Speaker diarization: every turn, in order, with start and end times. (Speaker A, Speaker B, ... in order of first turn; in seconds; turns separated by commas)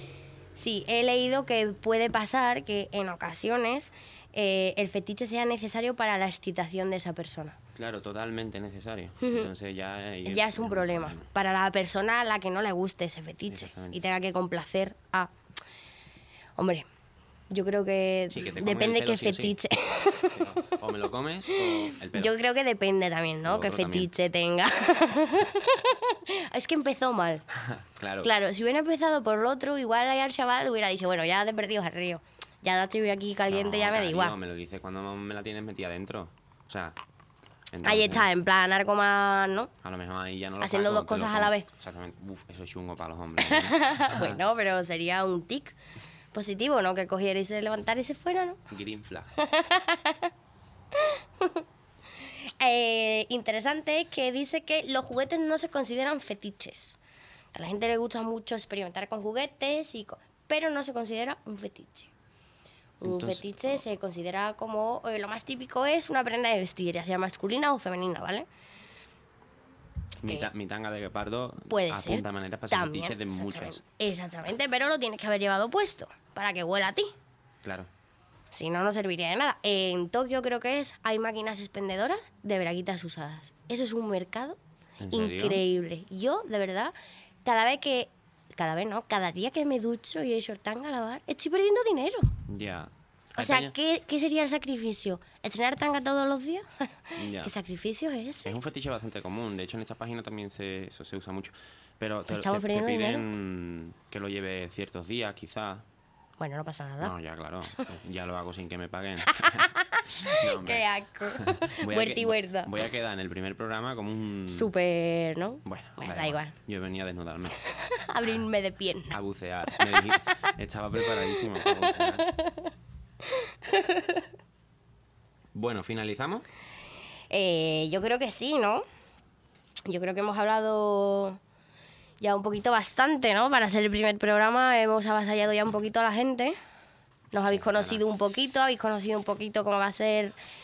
Speaker A: 0.6-7.6, Speaker B: 7.8-11.3, Speaker A: 9.2-9.5, Speaker A: 10.2-15.3, Speaker B: 13.5-14.0, Speaker A: 16.6-16.9, Speaker A: 17.5-20.7, Speaker B: 18.3-19.6, Speaker B: 20.3-22.3, Speaker A: 21.5-27.5, Speaker B: 23.4-24.1, Speaker B: 27.6-28.3, Speaker A: 28.2-34.4, Speaker B: 33.5-37.0, Speaker B: 37.7-38.3, Speaker A: 37.8-39.7, Speaker B: 39.8-44.4, Speaker A: 40.6-41.7, Speaker A: 43.4-45.8, Speaker A: 46.3-48.6, Speaker B: 48.7-49.3, Speaker A: 49.4-50.3, Speaker A: 51.0-51.6, Speaker A: 52.2-57.0, Speaker A: 57.5-62.1, Speaker A: 63.0-68.5, Speaker B: 63.0-63.8, Speaker B: 70.2-73.8, Speaker A: 70.3-70.5, Speaker A: 71.7-77.1, Speaker B: 77.6-77.9, Speaker A: 78.5-84.6, Speaker B: 85.0-85.6, Speaker A: 85.1-92.3, Speaker B: 92.5-93.7, Speaker A: 93.4-98.5, Speaker B: 97.2-97.5, Speaker B: 98.5-105.9, Speaker A: 102.3-103.3, Speaker A: 106.4-107.2, Speaker B: 107.0-114.7, Speaker A: 109.3-112.7, Speaker A: 114.5-116.5, Speaker B: 115.7-117.6, Speaker A: 117.6-119.2, Speaker B: 119.1-122.3, Speaker A: 121.4-122.7, Speaker A: 123.3-124.2, Speaker B: 125.5-126.5, Speaker A: 127.3-128.8, Speaker A: 129.9-131.4, Speaker A: 132.2-136.6, Speaker A: 137.3-140.3, Speaker B: 137.5-138.1